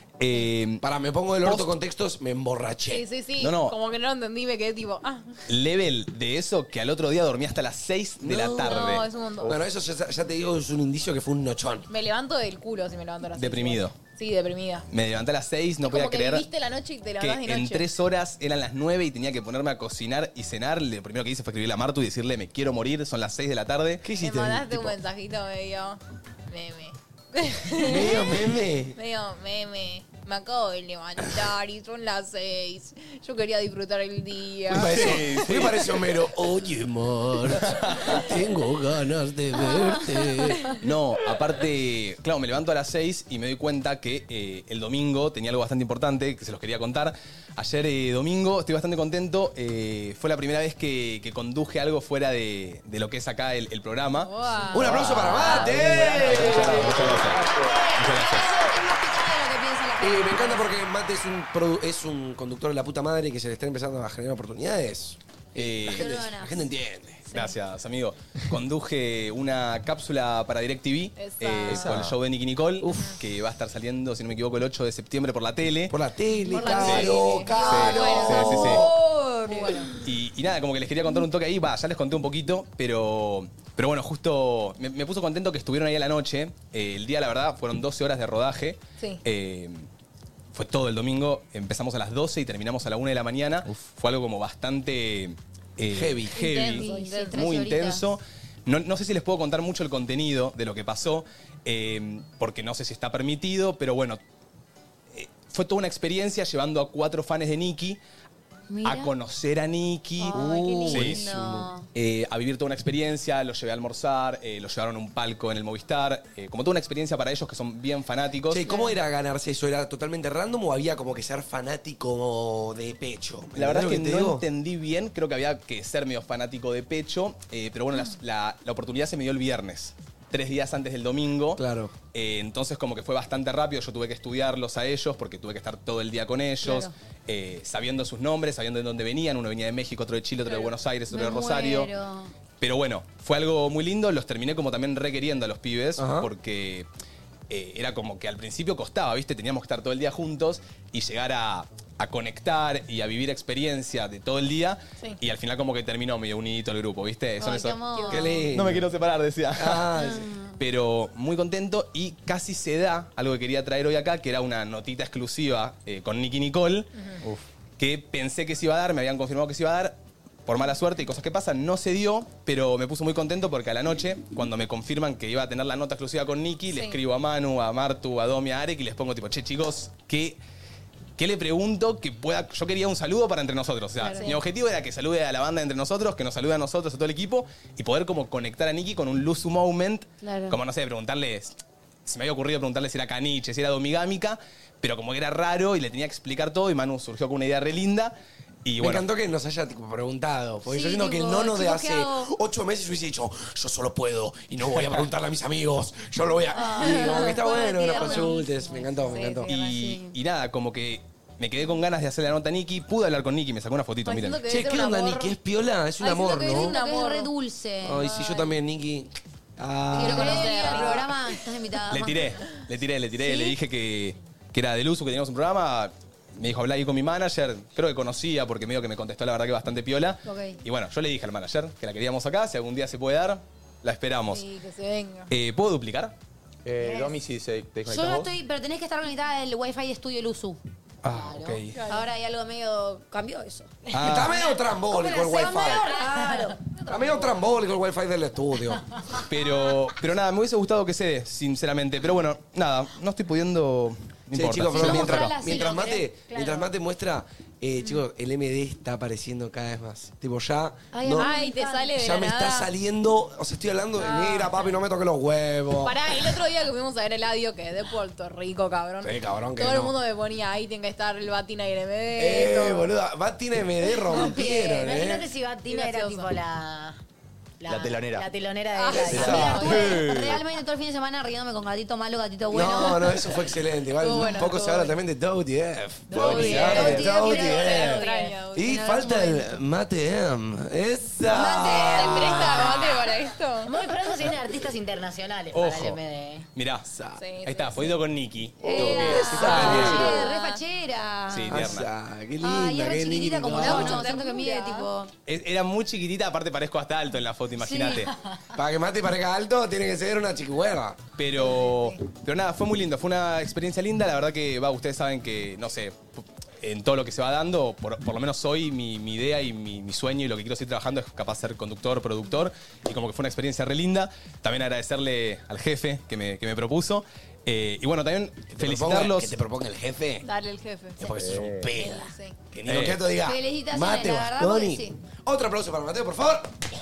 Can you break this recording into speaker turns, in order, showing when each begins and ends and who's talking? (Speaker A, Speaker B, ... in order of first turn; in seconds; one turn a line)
Speaker A: 0.2-0.8
Speaker B: 0.8-3.0
Speaker A: 1.4-1.7
Speaker C: 2.9-5.4
Speaker A: 3.4-3.7
Speaker A: 5.5-9.1
Speaker B: 8.2-8.8
Speaker C: 8.6-9.6
Speaker B: 9.4-11.9
Speaker C: 11.9-14.9
Speaker A: 13.4-13.9
Speaker A: 14.9-16.4
Speaker C: 15.8-17.8
Speaker A: 17.2-24.1
Speaker B: 24.0-24.9
Speaker C: 24.2-35.5
Speaker B: 27.8-28.9
Speaker B: 34.7-40.6
Speaker A: 34.7-35.9
Speaker A: 37.6-38.2
Speaker A: 40.8-58.5
Speaker C: 54.2-55.7
Speaker B: 54.7-57.2
Speaker D: 55.4-60.8
Speaker E: 55.6-57.8
Speaker B: 60.0-67.3
Speaker A: 65.5-66.1
Speaker D: 65.9-66.6
Speaker C: 67.3-67.5
Speaker A: 67.3-75.9
Speaker C: 71.2-72.0
Speaker E: 71.9-72.1
Speaker B: 72.8-73.1
Speaker B: 75.9-79.0
Speaker D: 76.5-79.9
Speaker C: 76.5-78.9
Speaker A: 76.8-78.9
Speaker C: 79.4-79.9
Speaker A: 80.0-89.9
Speaker A: 90.5-104.2
Speaker B: 95.9-96.4
Speaker D: 96.3-98.0
Speaker C: 96.7-97.4
Speaker A: 105.1-108.0
Speaker D: 108.7-109.1
Speaker A: 108.8-111.2
Speaker D: 110.2-111.9
Speaker B: 110.3-111.7
Speaker A: 111.9-118.7
Speaker B: 118.5-124.4
Speaker D: 118.6-119.0
Speaker A: 123.5-141.9
Speaker B: 131.6-131.9
Speaker D: 136.6-136.9
Speaker C: 140.5-140.7
Speaker D: 141.1-142.3
Speaker A: 142.6-146.9
Speaker B: 146.0-146.3
Speaker A: 147.5-157.8
Speaker D: 157.4-158.5
Speaker C: 157.9-158.5
Speaker B: 158.1-158.9
Speaker A: 158.5-159.9
Speaker B: 159.6-160.3
Speaker D: 159.9-160.6
Speaker A: 160.6-166.9
Speaker A: 167.8-180.4
Speaker C: 176.7-177.0
Speaker A: 181.2-198.1
Speaker D: 184.0-184.4
Speaker C: 184.1-184.4
Speaker D: 190.2-190.6
Speaker A: 198.6-199.1
Speaker B: 198.8-209.5
Speaker D: 200.6-202.3
Speaker A: 204.6-205.1
Speaker D: 206.5-208.9
Speaker C: 206.7-209.8
Speaker A: 209.5-214.4
Speaker D: 209.7-210.1
Speaker C: 214.1-215.4
Speaker B: 214.4-216.8
Speaker C: 216.0-217.3
Speaker D: 216.0-218.2
Speaker B: 217.8-221.1
Speaker C: 218.0-218.6
Speaker D: 219.9-222.3
Speaker C: 219.9-221.2
Speaker A: 221.9-234.4
Speaker D: 230.2-230.6
Speaker C: 234.3-235.3
Speaker A: 235.3-236.1
Speaker E: 236.6-238.3
Speaker D: 236.8-237.1
Speaker D: 237.9-240.6
Speaker A: 241.1-241.6
Speaker F: 241.1-241.6
Speaker C: 241.7-242.1
Speaker D: 241.8-244.0
Speaker A: 243.9-244.4
Speaker B: 244.0-246.0
Speaker D: 244.9-246.8
Speaker F: 245.4-246.6
Speaker B: 246.9-248.8
Speaker A: 249.2-255.4
Speaker B: 254.3-261.3
Speaker D: 254.7-256.1
Speaker C: 256.3-256.6
Speaker D: 260.9-262.0
Speaker C: 261.1-262.7
Speaker B: 261.9-266.4
Speaker C: 264.0-264.7
Speaker C: 265.8-272.9
Speaker B: 269.0-269.9
Speaker B: 272.2-275.3
Speaker F: 274.1-277.0
Speaker C: 275.7-276.3
Speaker F: 277.6-280.1
Speaker E: 277.6-278.3
Speaker C: 278.7-280.1
Speaker B: 278.9-280.0
Speaker D: 279.7-283.4
Speaker B: 282.5-292.9
Speaker C: 284.0-284.9
Speaker C: 286.1-288.9
Speaker D: 286.1-289.6
Speaker F: 286.1-287.9
Speaker D: 291.3-292.8
Speaker C: 291.6-293.7
Speaker F: 293.6-296.5
Speaker A: 295.5-296.0
Speaker A: 296.6-300.1
Speaker C: 297.2-297.9
Speaker D: 298.6-301.8
Speaker B: 298.8-300.2
Speaker C: 299.1-300.6
Speaker A: 301.3-301.9
Speaker B: 301.5-304.1
Speaker D: 302.4-305.1
Speaker C: 303.6-304.9
Speaker A: 305.2-308.1
Speaker D: 307.6-308.1
Speaker B: 308.6-311.0
Speaker A: 311.2-329.4
Speaker C: 311.4-312.0
Speaker B: 328.5-330.2
Speaker C: 330.2-331.1
Speaker B: 331.0-336.6
Speaker E: 331.2-331.7
Speaker C: 331.7-332.4
Speaker A: 332.6-333.0
Speaker D: 333.2-335.0